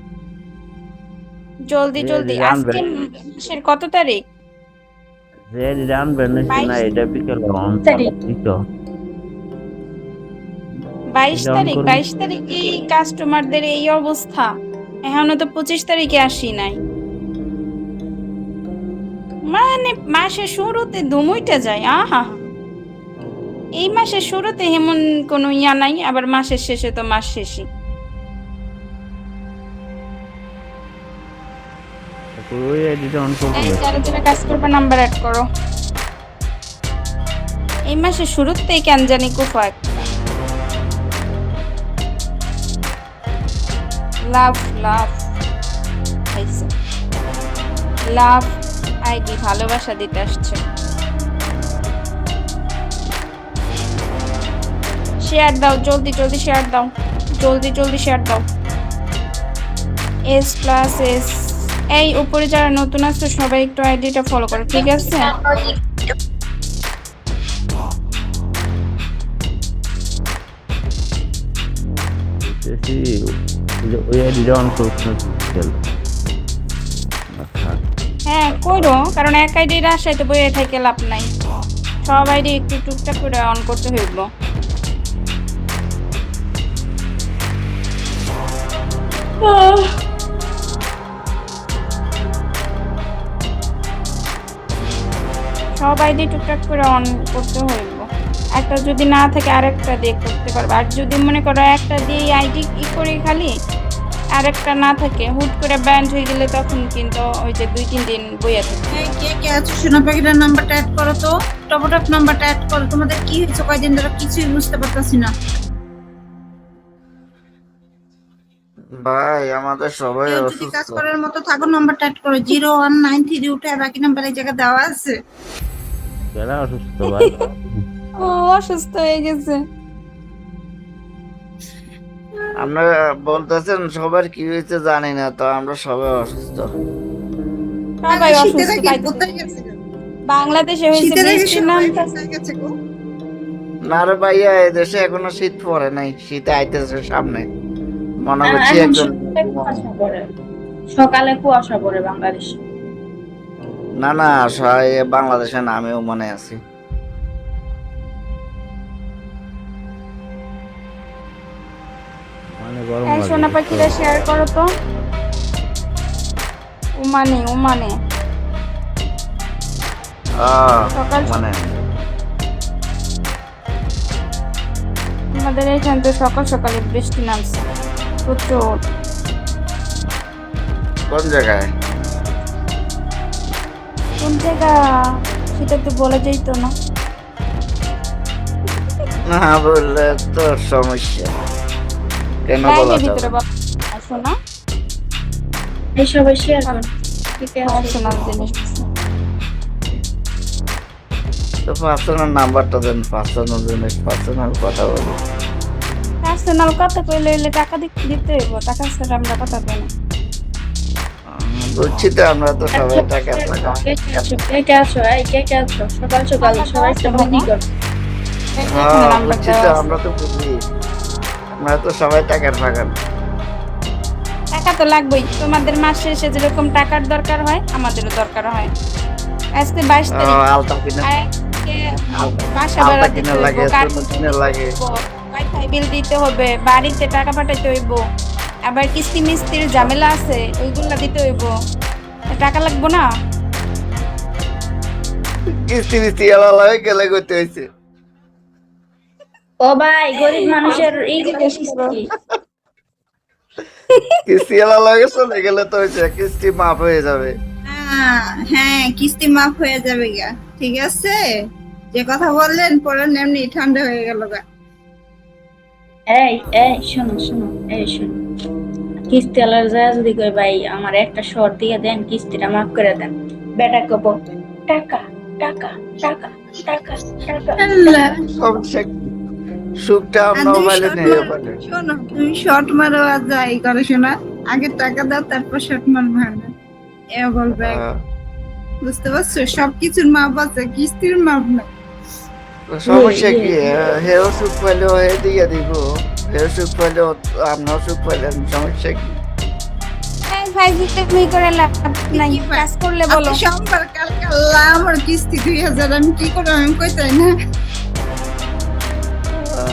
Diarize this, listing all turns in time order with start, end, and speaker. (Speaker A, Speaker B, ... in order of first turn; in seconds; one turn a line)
Speaker A: 1.7-4.2
Speaker B: 2.0-2.8
Speaker B: 5.5-8.5
Speaker A: 6.5-6.8
Speaker A: 11.1-14.5
Speaker B: 11.3-12.0
Speaker A: 15.1-16.8
Speaker A: 19.5-22.4
Speaker A: 23.8-27.6
Speaker B: 32.4-34.7
Speaker A: 33.6-35.4
Speaker A: 37.9-40.1
Speaker A: 44.3-45.2
Speaker A: 46.3-46.7
Speaker A: 48.1-48.5
Speaker A: 49.1-50.6
Speaker A: 55.2-56.9
Speaker A: 57.4-58.4
Speaker A: 60.3-61.3
Speaker A: 61.9-65.3
Speaker B: 72.4-73.0
Speaker B: 73.8-75.8
Speaker B: 77.3-77.8
Speaker A: 78.3-81.3
Speaker A: 82.0-84.2
Speaker C: 89.4-89.8
Speaker A: 95.8-98.0
Speaker A: 98.6-103.5
Speaker A: 104.3-109.0
Speaker D: 108.9-115.3
Speaker E: 119.0-121.0
Speaker D: 120.3-125.2
Speaker B: 126.3-127.8
Speaker A: 128.2-129.6
Speaker E: 132.6-136.7
Speaker A: 138.0-139.2
Speaker D: 138.1-139.8
Speaker A: 140.3-142.1
Speaker D: 140.9-142.7
Speaker E: 143.9-147.4
Speaker E: 148.2-149.9
Speaker C: 148.6-150.2
Speaker C: 150.9-152.6
Speaker E: 154.0-156.6
Speaker B: 162.6-164.0
Speaker A: 163.1-164.7
Speaker A: 167.0-167.9
Speaker E: 170.4-171.8
Speaker A: 170.9-171.4
Speaker A: 175.3-177.6
Speaker A: 178.2-178.6
Speaker E: 181.1-181.7
Speaker A: 184.2-184.7
Speaker A: 185.5-186.7
Speaker E: 189.3-191.3
Speaker E: 192.5-193.3
Speaker A: 192.6-194.3
Speaker C: 196.0-196.8
Speaker C: 197.3-198.2
Speaker A: 197.7-198.8
Speaker E: 201.7-205.2
Speaker A: 206.2-209.9
Speaker E: 211.3-214.2
Speaker C: 212.7-217.7
Speaker A: 216.4-217.5
Speaker A: 218.6-219.9
Speaker E: 218.7-220.6
Speaker E: 221.6-222.9
Speaker A: 224.5-228.7
Speaker A: 229.6-230.4
Speaker E: 230.1-231.1
Speaker A: 231.0-231.8
Speaker E: 232.1-234.7
Speaker A: 232.5-238.0
Speaker A: 238.7-241.5
Speaker A: 242.3-243.0
Speaker E: 245.7-247.6
Speaker C: 249.6-252.1
Speaker A: 250.2-251.9
Speaker E: 254.3-257.3
Speaker D: 257.7-261.1
Speaker D: 261.9-264.4
Speaker C: 266.1-268.2
Speaker C: 269.1-274.1
Speaker C: 274.7-277.9
Speaker D: 277.6-278.2
Speaker E: 278.3-279.1
Speaker E: 279.8-281.5
Speaker D: 280.4-286.5
Speaker D: 287.1-287.8
Speaker E: 287.5-288.0
Speaker D: 288.8-291.6
Speaker E: 292.7-299.1
Speaker C: 293.0-293.5
Speaker A: 300.3-303.4
Speaker D: 302.1-307.3